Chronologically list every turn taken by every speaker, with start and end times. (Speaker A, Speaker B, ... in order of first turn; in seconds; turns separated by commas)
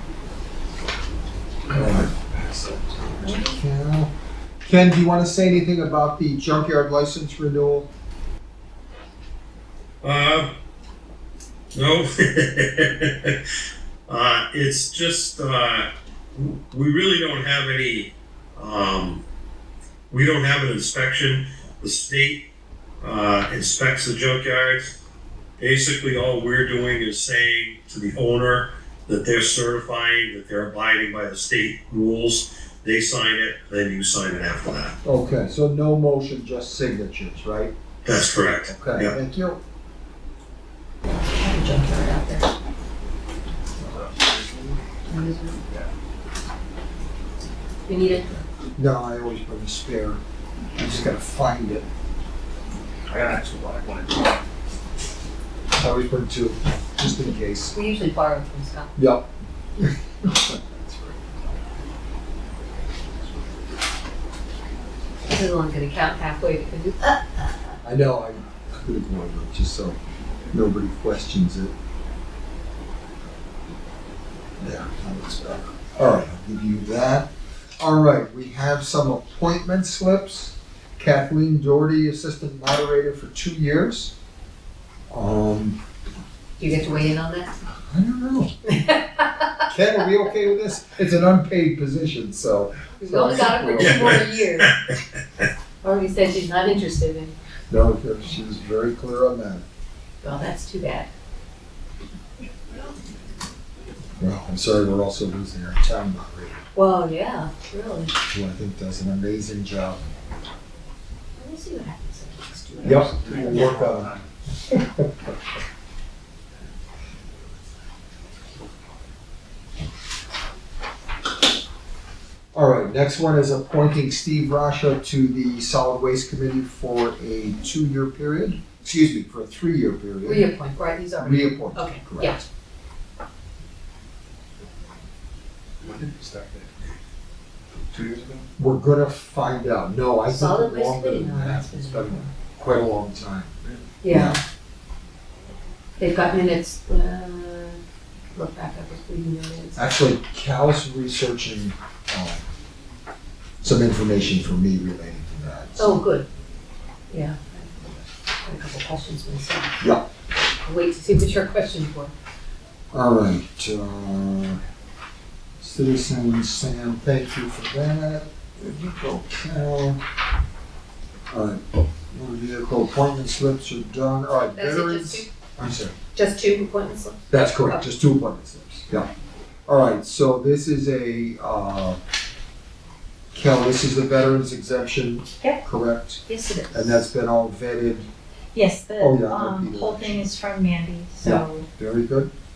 Speaker A: 1.7-4.1, Speaker B: 3.2-3.6, Speaker A: 4.6-7.9, Speaker C: 10.0-10.5, Speaker C: 11.7-13.4, Speaker C: 14.1-19.2, Speaker C: 20.1-22.4, Speaker C: 23.0-24.9, Speaker C: 25.6-35.0, Speaker A: 35.0-37.7, Speaker C: 38.0-39.1, Speaker A: 38.6-39.6, Speaker B: 41.0-42.5, Speaker A: 43.8-44.7, Speaker B: 45.0-45.6, Speaker B: 47.9-48.2, Speaker A: 48.1-50.2, Speaker A: 50.7-51.9, Speaker D: 53.1-54.2, Speaker A: 55.8-57.7, Speaker B: 57.7-58.9, Speaker A: 59.0-60.6, Speaker B: 65.3-67.2, Speaker A: 67.8-70.0, Speaker A: 70.5-71.7, Speaker A: 74.6-84.1, Speaker A: 85.1-85.8, Speaker B: 86.6-87.5, Speaker A: 87.9-88.5, Speaker B: 88.7-89.4, Speaker A: 89.7-94.2, Speaker B: 93.0-94.7, Speaker C: 93.7-95.0, Speaker B: 95.8-97.3, Speaker A: 97.7-99.7, Speaker B: 100.2-101.1, Speaker A: 104.2-106.6, Speaker B: 106.8-108.1, Speaker A: 108.3-110.0, Speaker B: 111.4-113.8, Speaker A: 112.8-114.2, Speaker D: 113.3-114.0, Speaker A: 114.7-115.1, Speaker A: 122.5-130.5, Speaker B: 130.2-132.4, Speaker A: 131.2-132.4, Speaker D: 135.8-136.8, Speaker D: 137.8-138.5, Speaker A: 138.6-143.5, Speaker B: 140.3-142.3, Speaker B: 144.0-144.4, Speaker A: 144.0-144.4, Speaker B: 146.0-147.8, Speaker B: 148.3-149.8, Speaker A: 149.8-152.4, Speaker A: 153.6-156.0, Speaker B: 155.8-156.3, Speaker B: 157.1-159.8, Speaker A: 159.8-160.1, Speaker B: 160.7-162.1, Speaker A: 162.9-164.6, Speaker A: 165.6-170.0, Speaker A: 171.3-175.9, Speaker B: 174.6-175.3, Speaker B: 176.2-177.8, Speaker A: 177.3-179.1, Speaker A: 179.7-182.0, Speaker A: 183.3-188.1, Speaker E: 186.3-187.0, Speaker E: 188.5-191.7, Speaker A: 189.0-190.3, Speaker A: 191.2-192.3